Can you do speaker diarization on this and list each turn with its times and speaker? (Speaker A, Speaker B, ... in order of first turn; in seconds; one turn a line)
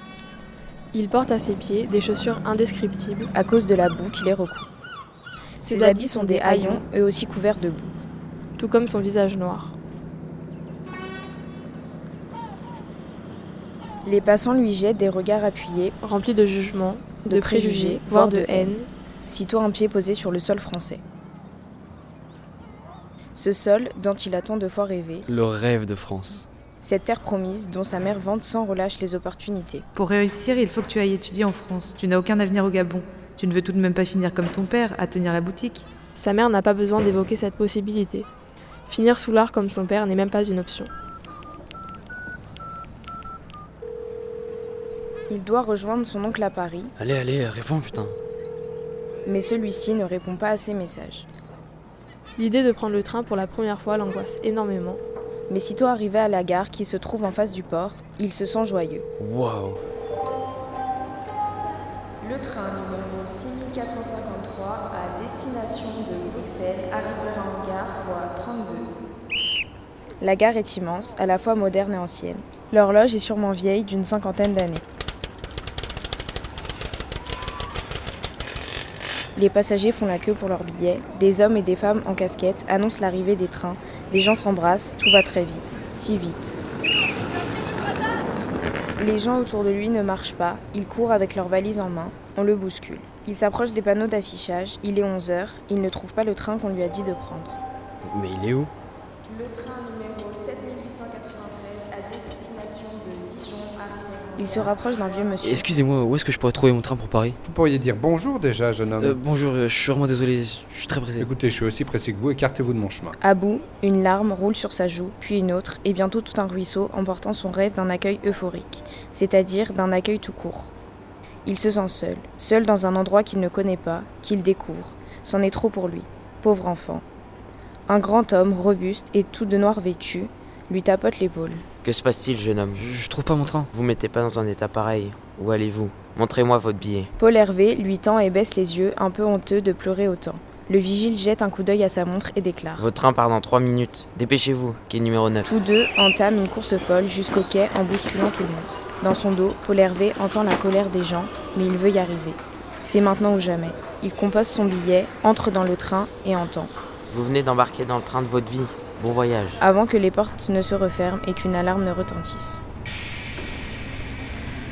Speaker A: 0.9-3.3
Speaker B: 3.3-4.7
Speaker A: 5.6-6.8
Speaker B: 5.6-7.9
Speaker A: 8.6-9.8
Speaker B: 14.1-15.9
Speaker A: 16.0-18.9
Speaker B: 17.2-18.7
Speaker B: 19.3-21.0
Speaker B: 23.4-25.3
Speaker C: 25.3-26.5
Speaker B: 26.8-29.9
Speaker D: 29.9-35.9
Speaker A: 36.1-38.3
Speaker A: 38.9-40.9
Speaker B: 45.3-46.9
Speaker C: 47.0-48.2
Speaker B: 49.3-51.3
Speaker A: 52.4-55.0
Speaker B: 55.5-59.1
Speaker C: 59.2-59.8
Speaker B: 62.2-68.9
Speaker B: 70.2-74.8
Speaker B: 79.4-86.5
Speaker B: 89.0-97.6
Speaker C: 98.0-98.7
Speaker B: 99.3-105.7
Speaker C: 105.4-107.4
Speaker E: 107.4-109.2
Speaker C: 109.0-111.3
Speaker E: 111.2-113.2
Speaker B: 113.2-120.7
Speaker B: 121.5-127.0
Speaker B: 127.9-131.7
Speaker F: 131.8-132.9
Speaker C: 132.8-133.7
Speaker F: 133.7-137.1
Speaker B: 137.2-142.9
Speaker F: 142.8-145.5
Speaker B: 145.4-156.7
Speaker F: 157.1-159.6
Speaker B: 159.6-162.6